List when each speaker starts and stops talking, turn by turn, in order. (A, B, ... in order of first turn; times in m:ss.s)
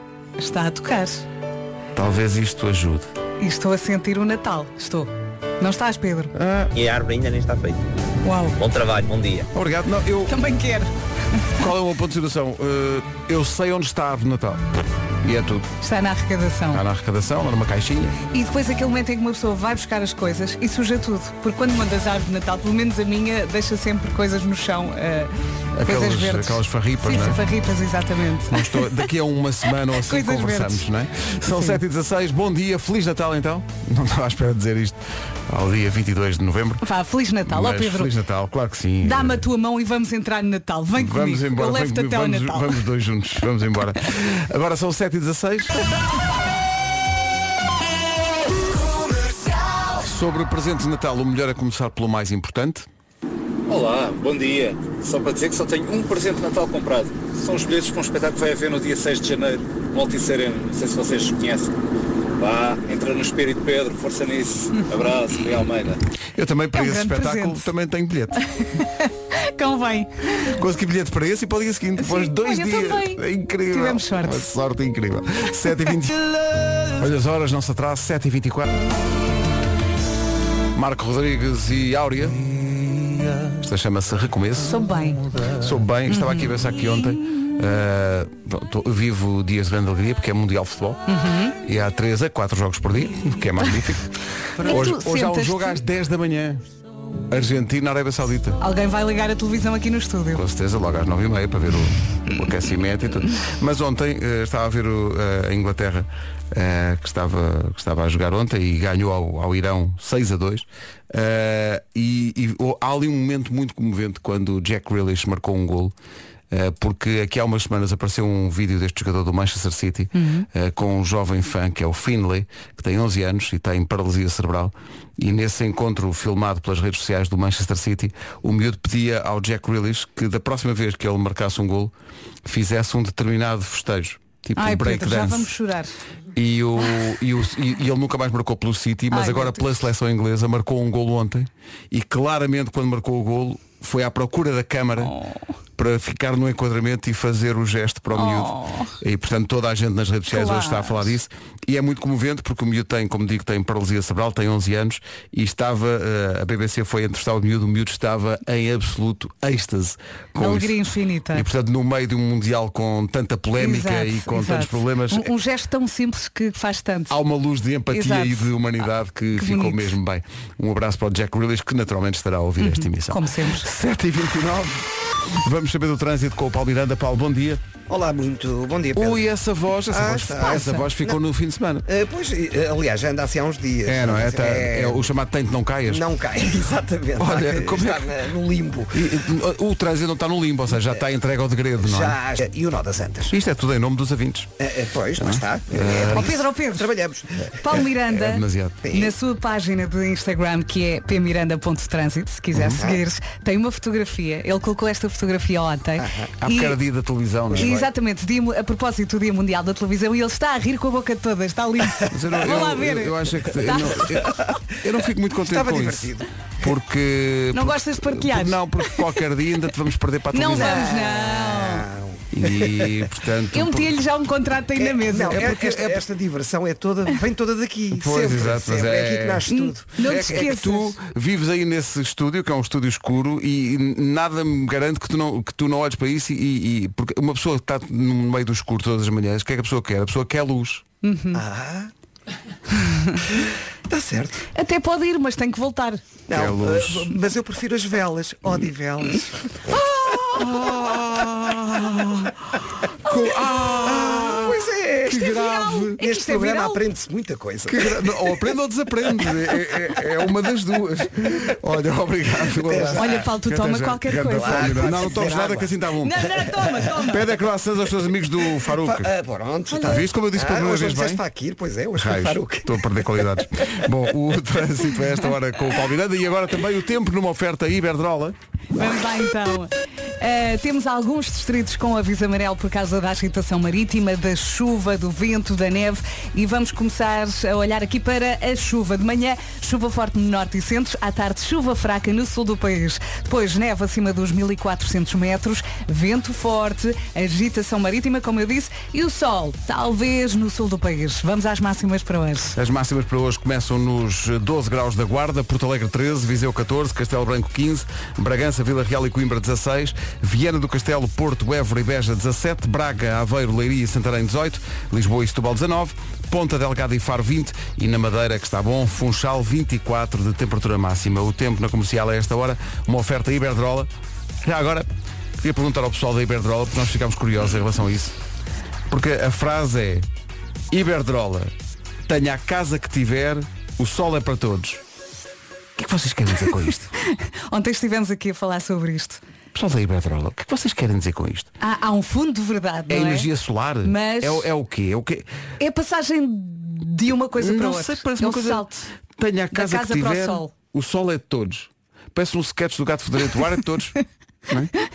0:00.4-0:01.2 A
0:01.9-0:03.1 B
0:03.4-0:06.3 A
0:06.3-0:06.7 B
0:06.7-0:07.8 C
0:08.2-0:08.6 A
0:08.6-0:09.5 C
0:09.5-0:10.4 B
0:10.3-0:10.9 A
0:11.6-0:15.7 B
0:15.8-0:16.8 A
0:16.7-0:18.2 B
0:18.3-0:25.3 A
0:25.8-0:27.4 B
0:25.8-0:29.0 A
0:28.5-0:36.9 B
0:29.9-0:30.8 A
0:31.5-0:31.8 A
0:36.8-0:38.1 A
0:37.4-0:39.5 B
0:39.0-0:42.8 A
0:41.0-0:45.9 B
0:49.9-0:52.9 B
0:53.7-1:01.7 D
1:02.4-1:06.0 D
1:06.3-1:08.4 B
1:06.7-1:07.7 A
1:08.6-1:10.6 A
1:10.5-1:16.2 B
1:12.0-1:14.5 A
1:16.9-1:18.9 B
1:20.7-1:22.5 B
1:23.4-1:31.0 B
1:24.6-1:25.2 A
1:26.1-1:26.5 A
1:31.1-1:31.6 A
1:31.6-1:36.7 B
1:34.6-1:35.8 A
1:37.3-1:38.6 B
1:38.6-1:40.4 A
1:40.3-1:56.0 B
1:56.5-2:11.9 B
2:00.2-2:00.5 A
2:12.4-2:15.5 B
2:14.6-2:15.9 A
2:16.3-2:25.2 B
2:19.1-2:19.7 A
2:25.0-2:25.4 A
2:25.8-2:40.8 B
2:28.1-2:29.0 A
2:30.3-2:31.1 A
2:40.4-2:41.5 A
2:41.3-2:45.3 B
2:43.6-2:47.2 A
2:47.1-2:57.6 B
2:47.9-2:48.5 A
2:49.3-2:50.0 A
2:52.6-2:53.7 A
2:57.9-2:59.2 E
2:59.0-3:01.8 B
2:59.9-3:01.2 E
3:01.9-3:05.1 E
3:03.8-3:06.0 B
3:05.9-3:09.1 E
3:07.2-3:08.1 B
3:08.9-3:12.2 B
3:10.8-3:11.0 E
3:11.8-3:13.4 E
3:13.3-3:14.5 B
3:14.6-3:18.0 E
3:15.2-3:16.4 B
3:16.1-3:17.0 A
3:17.6-3:26.8 A
3:18.2-3:18.9 B
3:18.8-3:19.2 E
3:22.5-3:22.8 B
3:22.7-3:23.0 E
3:26.0-3:26.3 E
3:26.4-3:27.7 B
3:27.5-3:27.9 E
3:27.6-3:34.3 A
3:32.1-3:36.1 B
3:32.4-3:32.7 E
3:35.4-3:36.3 E
3:36.6-3:40.9 B
3:37.5-3:38.6 A
3:40.3-3:41.8 A
3:40.5-3:43.1 E
3:42.3-3:44.0 B
3:43.5-3:45.7 A
3:44.8-3:50.5 E
3:45.3-3:46.0 B
3:47.9-3:49.5 B
3:49.5-3:51.0 A
3:50.0-4:00.8 B
4:01.0-4:01.4 A
4:01.3-4:01.9 E
4:03.3-4:04.4 E
4:04.5-4:06.0 A
4:06.3-4:12.1 E
4:06.3-4:07.1 B
4:10.0-4:10.3 A
4:10.3-4:12.4 B
4:13.0-4:16.0 B
4:13.4-4:18.4 E
4:15.1-4:16.8 A
4:17.7-4:26.3 B
4:19.2-4:19.9 E
4:22.5-4:23.3 E
4:23.0-4:27.3 A
4:24.3-4:25.7 E
4:26.5-4:27.0 E
4:27.1-4:29.1 B
4:28.6-4:33.3 E
4:29.7-4:30.0 A
4:29.8-4:31.2 B
4:32.0-4:38.4 B
4:38.8-5:02.6 A
5:02.6-5:23.9 B
5:24.4-5:28.2 B
5:28.9-5:30.1 B
5:30.7-5:31.5 B
5:32.0-5:34.8 B
5:35.8-5:36.9 B
5:37.0-5:39.2 A
5:39.5-5:41.5 B
5:41.6-5:43.3 A
5:42.9-5:45.3 B
5:43.8-5:44.5 A
5:45.6-5:48.9 A
5:47.4-5:54.0 B
5:49.5-5:50.5 A